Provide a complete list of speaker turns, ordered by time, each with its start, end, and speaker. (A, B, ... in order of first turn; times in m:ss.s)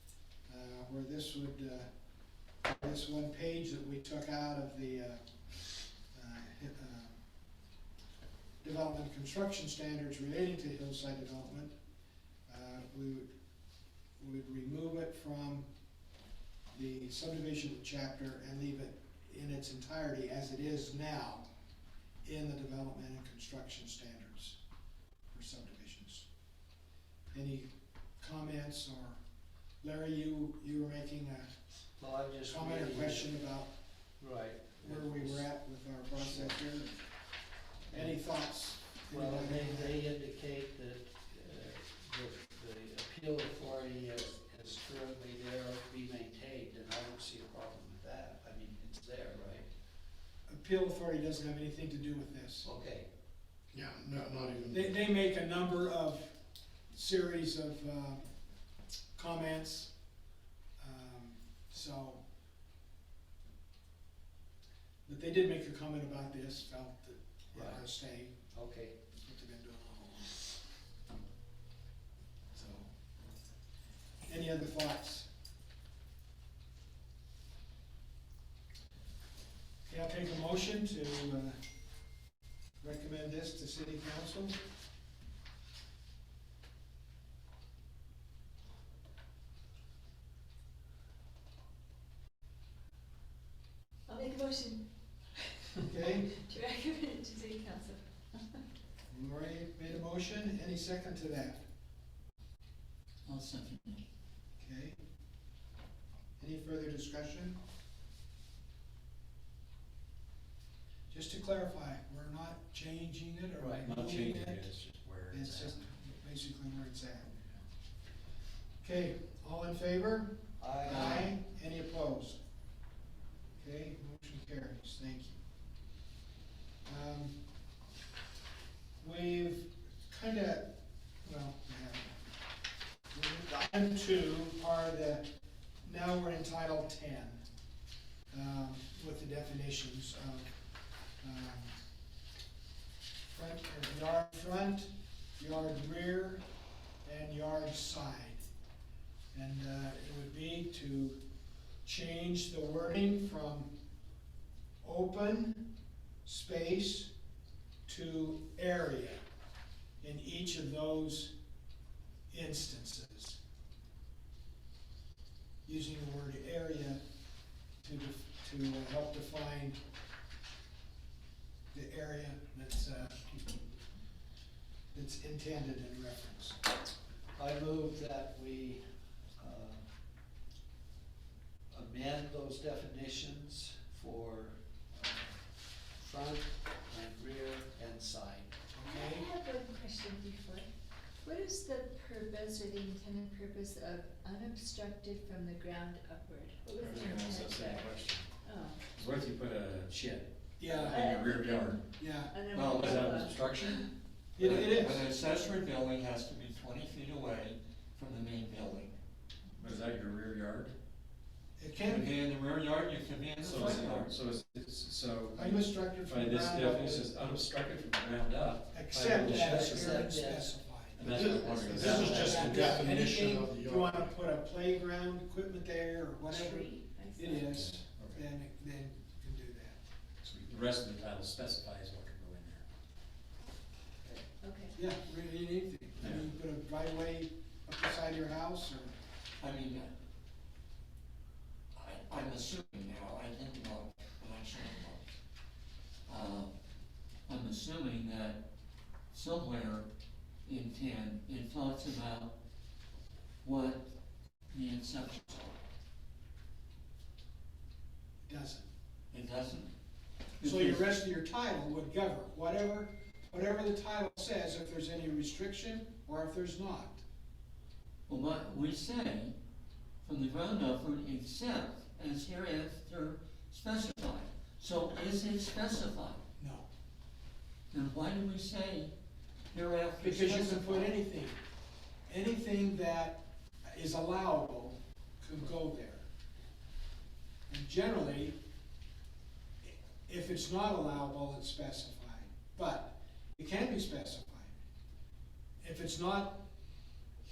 0:00.5-0:01.9 A
0:02.6-0:05.2 A
0:06.1-0:07.2 A
0:08.6-0:11.8 A
0:12.5-0:13.3 A
0:14.2-0:15.7 A
0:16.7-0:21.4 A
0:22.2-0:24.6 A
0:25.3-0:26.3 A
0:27.3-0:29.2 A
0:29.8-0:31.5 A
0:32.0-0:33.3 B
0:32.5-0:33.7 A
0:34.2-0:35.5 B
0:34.8-0:36.9 A
0:36.2-0:36.6 B
0:37.9-0:38.2 B
0:37.9-0:40.0 A
0:39.1-0:49.7 B
0:50.5-0:52.7 A
0:52.6-0:53.1 B
0:53.7-0:54.9 C
0:54.7-0:56.4 A
0:56.9-0:58.3 A
0:59.2-0:59.9 A
1:00.8-1:02.2 A
1:05.0-1:08.4 A
1:07.5-1:07.8 B
1:08.5-1:09.0 B
1:09.1-1:10.4 A
1:12.5-1:12.9 A
1:14.2-1:15.3 A
1:19.8-1:21.6 A
1:22.8-1:24.6 A
1:34.1-1:34.8 D
1:35.6-1:38.6 D
1:35.8-1:36.3 A
1:39.1-1:41.6 A
1:43.2-1:44.0 E
1:44.6-1:45.0 A
1:46.4-1:47.6 A
1:51.1-1:54.7 A
1:53.6-1:53.9 B
1:53.8-1:55.8 F
1:55.3-1:57.5 A
1:58.8-2:02.4 A
2:00.6-2:01.3 B
2:03.6-2:05.4 A
2:06.8-2:07.4 A
2:09.0-2:10.7 A
2:11.2-2:12.2 A
2:13.1-2:15.2 A
2:15.8-2:17.4 A
2:18.3-2:20.5 A
2:21.2-2:21.8 A
2:23.2-2:26.4 A
2:27.0-2:28.5 A
2:29.3-2:31.2 A
2:31.8-2:33.7 A
2:34.8-2:35.7 A
2:36.2-2:37.1 A
2:37.8-2:39.2 A
2:40.0-2:41.3 A
2:42.3-2:43.4 A
2:45.6-2:47.0 A
2:47.8-2:49.8 A
2:51.7-2:53.3 A
2:54.9-2:56.6 A
2:57.3-2:58.8 B
2:59.4-2:59.8 B
3:01.7-3:05.4 B
3:06.0-3:08.5 B
3:08.7-3:09.3 A
3:08.8-3:10.7 D
3:11.2-3:17.9 D
3:16.8-3:18.3 F
3:18.4-3:18.8 D
3:18.9-3:21.8 F
3:20.6-3:21.0 A
3:20.8-3:23.9 D
3:22.0-3:22.3 A
3:22.5-3:23.3 E
3:22.7-3:23.8 F
3:24.4-3:25.0 A
3:24.4-3:29.0 E
3:29.6-3:30.7 F
3:31.6-3:32.1 A
3:31.8-3:34.1 E
3:33.4-3:40.2 F
3:33.4-3:34.0 A
3:35.3-3:37.1 A
3:38.7-3:49.8 A
3:39.2-3:42.5 B
3:41.0-3:43.1 F
3:41.0-3:44.1 C
3:46.3-3:47.5 D
3:47.4-3:48.2 F
3:50.2-3:52.6 F
3:54.4-3:54.8 D
3:54.7-3:58.9 A
3:56.0-3:56.3 F
3:59.4-3:59.9 E
4:01.7-4:05.1 E
4:06.1-4:06.5 E
4:07.3-4:08.4 E
4:09.1-4:09.9 E
4:10.4-4:12.3 E
4:13.4-4:13.9 E
4:14.5-4:15.6 E
4:18.2-4:18.7 A
4:19.1-4:19.7 E
4:20.4-4:20.9 E
4:20.4-4:27.0 A
4:28.1-4:29.4 E
4:30.0-4:36.2 E
4:36.4-4:36.7 A
4:37.7-4:38.9 E
4:39.5-4:41.0 E
4:40.0-4:41.4 A
4:42.1-4:46.1 A
4:47.5-4:48.4 A
4:49.6-4:54.6 A
4:55.6-4:56.4 A